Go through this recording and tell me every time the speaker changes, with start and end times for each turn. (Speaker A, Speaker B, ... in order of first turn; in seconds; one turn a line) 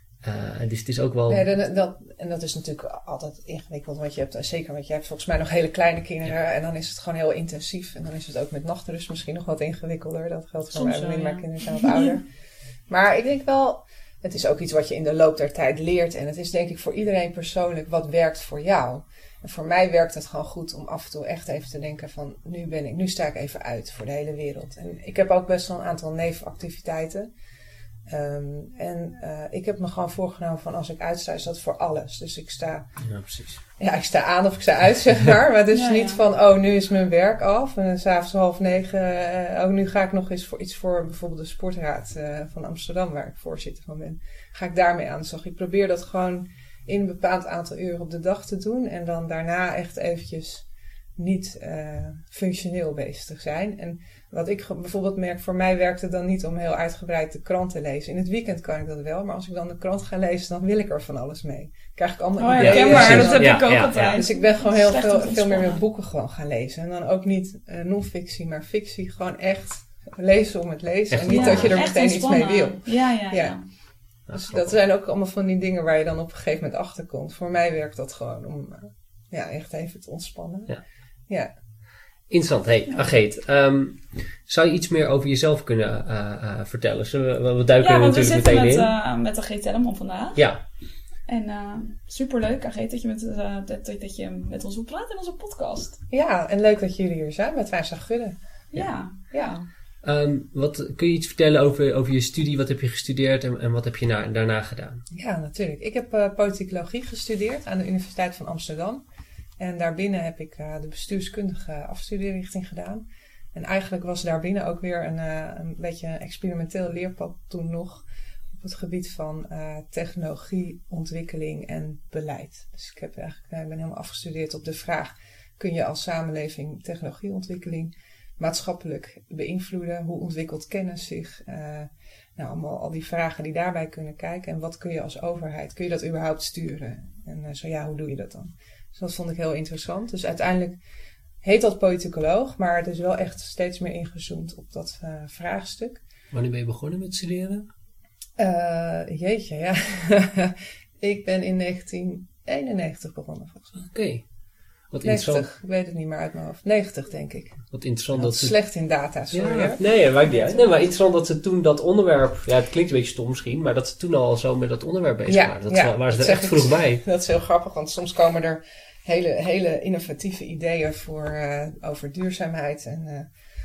Speaker A: 0.2-1.4
Speaker B: 1.3-12.2
Speaker C: 10.7-12.1
Speaker B: 12.9-27.3
Speaker B: 28.1-32.9
Speaker A: 33.0-33.6
Speaker B: 33.8-50.6
Speaker C: 35.7-36.2
Speaker B: 51.2-73.5
Speaker C: 62.4-65.8
Speaker A: 62.6-64.2
Speaker A: 71.1-71.8
Speaker C: 71.3-73.7
Speaker A: 74.3-74.8
Speaker B: 74.3-80.7
Speaker A: 82.3-88.9
Speaker C: 87.8-90.5
Speaker A: 90.3-90.6
Speaker C: 91.2-96.0
Speaker B: 96.1-98.3
Speaker C: 98.7-99.7
Speaker A: 100.0-105.0
Speaker B: 105.1-109.0
Speaker B: 109.6-118.0
Speaker B: 118.6-140.8
Speaker B: 141.4-146.0
Speaker A: 146.3-147.7
Speaker B: 148.4-153.8
Speaker A: 153.8-154.2
Speaker A: 154.9-155.5
Speaker B: 155.0-160.6
Speaker A: 157.7-158.6
Speaker A: 159.3-167.0
Speaker B: 165.3-173.3